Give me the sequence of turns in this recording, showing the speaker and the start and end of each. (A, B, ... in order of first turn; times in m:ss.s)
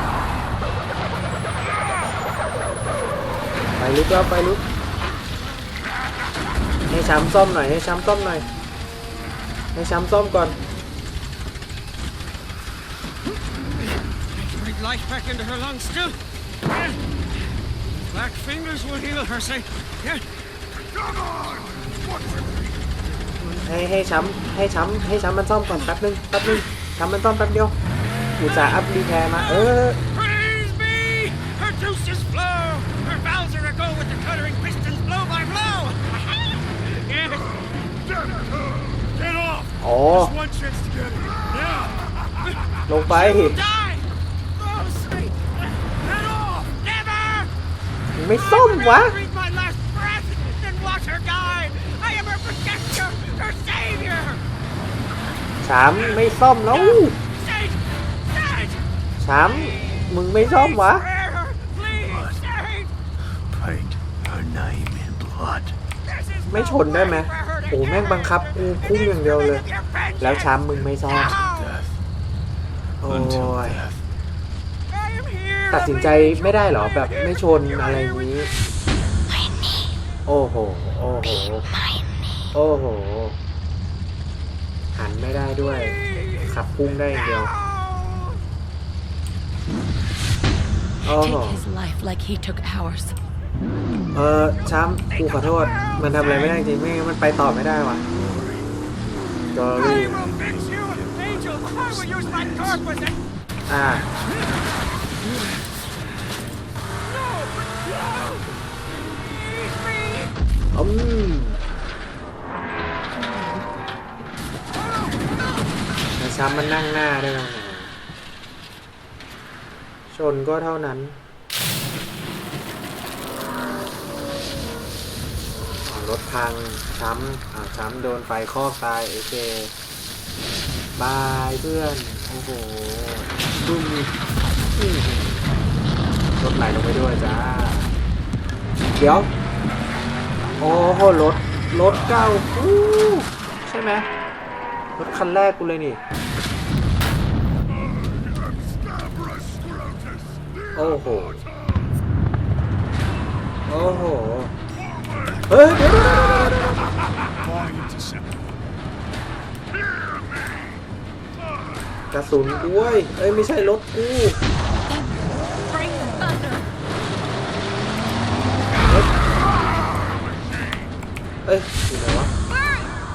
0:03.8-0:04.6 A
0:06.9-0:08.4 A
0:09.7-0:10.6 A
0:14.3-0:16.2 B
0:16.7-0:17.0 B
0:18.1-0:20.2 B
0:23.6-0:27.8 A
0:28.4-0:30.0 A
0:29.4-0:37.7 B
0:39.2-0:42.0 B
0:39.8-0:40.3 A
0:42.5-0:47.5 B
0:42.9-0:43.6 A
0:48.2-0:49.2 A
0:48.4-0:54.4 B
0:55.6-0:57.2 A
0:55.9-0:58.8 B
0:59.2-1:01.1 A
1:00.4-1:02.9 B
1:02.0-1:02.4 C
1:03.2-1:05.7 C
1:06.0-1:11.7 B
1:06.5-1:09.6 A
1:10.2-1:11.4 A
1:11.4-1:12.0 C
1:13.0-1:13.8 A
1:13.0-1:14.0 C
1:14.9-1:18.3 B
1:15.7-1:18.5 A
1:20.2-1:21.7 A
1:21.8-1:22.1 D
1:22.5-1:23.4 A
1:24.9-1:27.5 A
1:25.9-1:26.5 B
1:27.1-1:28.4 B
1:31.0-1:31.6 A
1:31.0-1:33.1 D
1:34.1-1:38.0 A
1:35.1-1:36.6 B
1:38.1-1:38.7 C
1:39.5-1:40.3 A
1:39.7-1:43.2 B
1:40.0-1:43.0 C
1:43.7-1:44.1 A
1:47.0-1:50.3 B
1:50.7-1:51.6 A
1:56.1-1:57.9 A
2:00.1-2:01.2 A
2:05.8-2:09.7 A
2:11.0-2:14.1 A
2:14.8-2:15.4 A
2:16.4-2:17.9 A
2:18.9-2:19.3 A
2:20.6-2:24.1 A
2:25.0-2:26.0 A
2:30.7-2:31.4 A
2:33.7-2:34.6 A
2:35.5-2:36.9 A
2:37.4-2:38.4 C
2:42.1-2:44.5 A
2:48.8-2:49.1 A
2:51.4-2:52.3 A